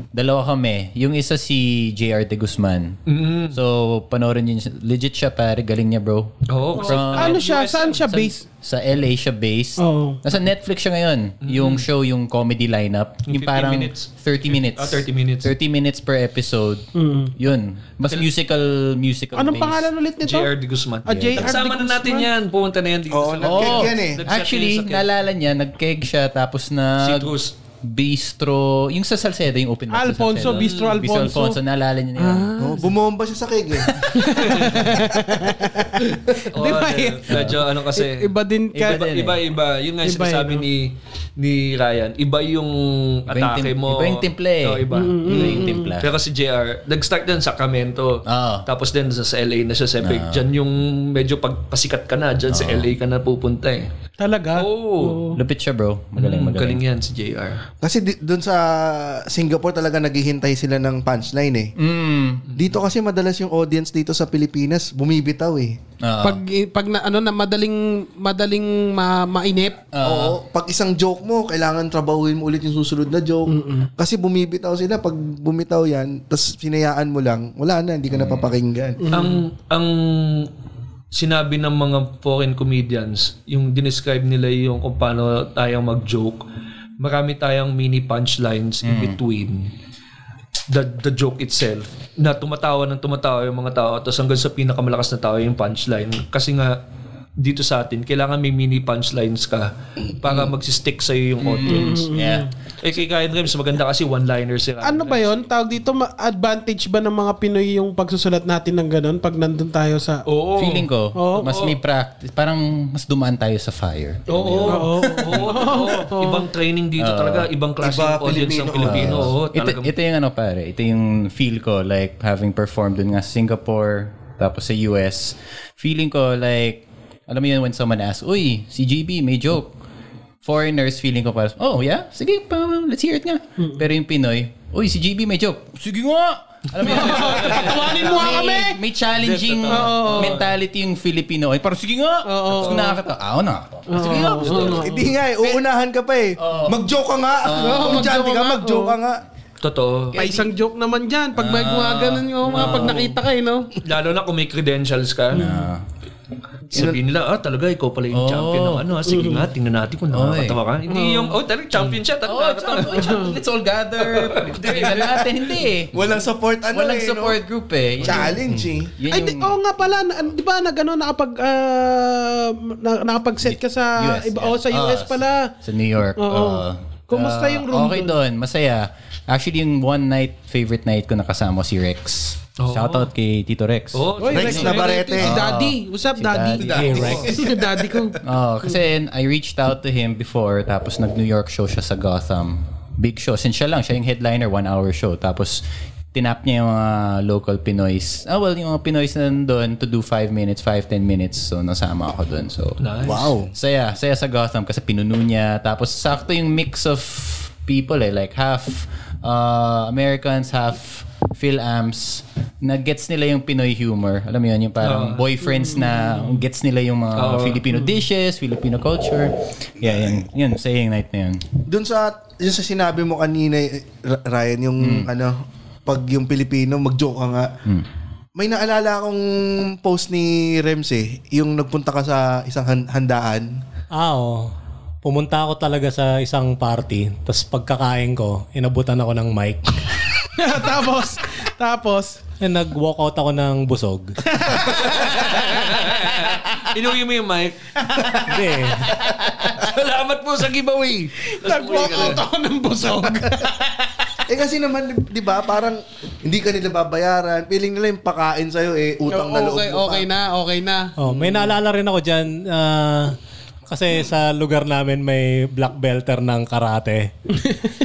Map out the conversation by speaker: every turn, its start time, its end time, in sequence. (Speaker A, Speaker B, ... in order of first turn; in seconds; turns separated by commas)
Speaker A: 0.1-3.0, Speaker B: 3.0-3.6, Speaker A: 3.5-7.4, Speaker B: 6.5-8.3, Speaker C: 6.8-8.4, Speaker A: 8.6-19.9, Speaker C: 9.8-10.2, Speaker B: 11.4-11.8, Speaker B: 13.3-15.5, Speaker C: 16.9-17.3, Speaker C: 19.3-20.5, Speaker B: 20.2-25.0, Speaker C: 21.0-22.3, Speaker A: 21.1-21.6, Speaker D: 23.1-24.2, Speaker A: 23.4-32.5, Speaker B: 27.0-27.5, Speaker C: 29.9-31.6, Speaker B: 30.4-30.9, Speaker C: 32.2-32.9, Speaker D: 32.6-34.0, Speaker A: 33.9-35.4, Speaker C: 34.2-39.1, Speaker B: 34.3-34.8, Speaker B: 36.5-38.3, Speaker A: 37.3-37.6, Speaker A: 38.7-39.4, Speaker B: 38.8-53.9, Speaker C: 40.0-40.6, Speaker A: 43.3-46.1, Speaker C: 44.9-46.0, Speaker A: 48.2-48.7, Speaker A: 50.0-50.4, Speaker A: 52.5-52.9, Speaker C: 54.2-55.4, Speaker B: 54.5-55.2, Speaker A: 55.3-56.8, Speaker B: 56.1-57.6, Speaker D: 57.8-61.7, Speaker A: 61.8-62.5, Speaker D: 62.5-65.8, Speaker A: 66.0-66.4, Speaker C: 66.2-69.8, Speaker A: 69.9-70.4, Speaker D: 70.0-79.0, Speaker C: 73.5-73.9, Speaker A: 78.1-78.5, Speaker C: 79.0-79.3, Speaker B: 79.1-80.5, Speaker B: 81.1-86.4, Speaker B: 87.0-89.7, Speaker A: 88.8-89.2, Speaker B: 90.7-96.8, Speaker B: 97.4-102.0, Speaker A: 101.4-102.5, Speaker C: 101.7-102.5, Speaker B: 102.8-105.5, Speaker C: 104.8-110.2, Speaker B: 110.2-110.9, Speaker A: 110.6-115.8, Speaker C: 111.2-111.5, Speaker B: 111.4-111.8, Speaker B: 114.3-119.9, Speaker C: 114.7-116.4, Speaker A: 117.0-117.5, Speaker D: 117.8-119.3, Speaker A: 118.8-129.7, Speaker A: 130.4-144.8, Speaker B: 136.8-138.4, Speaker C: 136.8-138.8, Speaker B: 139.2-140.5, Speaker C: 139.7-140.4, Speaker C: 142.2-143.0, Speaker B: 142.6-142.9, Speaker C: 143.9-145.1, Speaker B: 144.3-144.8, Speaker D: 144.7-149.2, Speaker A: 146.4-146.8, Speaker A: 147.4-148.1, Speaker C: 147.5-148.9, Speaker B: 149.6-150.2, Speaker C: 150.2-153.7, Speaker A: 151.3-153.1, Speaker B: 152.5-153.1, Speaker B: 153.8-155.4, Speaker A: 155.3-155.8, Speaker C: 155.3-155.7, Speaker B: 156.7-163.3, Speaker A: 158.1-158.9, Speaker C: 159.1-159.4, Speaker A: 160.1-160.6, Speaker C: 160.9-161.4, Speaker A: 162.2-166.1, Speaker C: 162.9-163.3, Speaker B: 164.0-165.4, Speaker D: 165.9-167.4, Speaker A: 166.7-169.6, Speaker D: 168.0-168.9, Speaker C: 169.1-175.5, Speaker A: 173.4-187.1, Speaker C: 176.2-178.2, Speaker B: 182.6-183.1, Speaker B: 183.9-184.9, Speaker C: 184.2-188.2, Speaker D: 184.3-185.5, Speaker D: 186.6-188.2, Speaker E: 186.8-187.2, Speaker B: 186.9-187.2, Speaker A: 188.2-195.6, Speaker A: 196.1-202.8, Speaker B: 202.8-203.3, Speaker D: 203.0-203.5, Speaker A: 203.5-221.4, Speaker B: 214.8-215.2, Speaker C: 215.6-215.9, Speaker B: 217.2-217.6, Speaker D: 221.7-227.5, Speaker A: 224.8-225.1, Speaker D: 228.3-233.5, Speaker E: 233.9-234.5, Speaker E: 235.0-239.8, Speaker C: 240.4-242.2, Speaker E: 242.4-244.1, Speaker C: 244.3-245.1, Speaker B: 244.6-247.6, Speaker C: 247.9-248.5, Speaker E: 248.2-248.9, Speaker B: 249.0-252.2, Speaker C: 251.3-254.2, Speaker D: 254.3-260.1, Speaker C: 259.1-260.9, Speaker E: 261.0-263.1, Speaker E: 263.7-267.1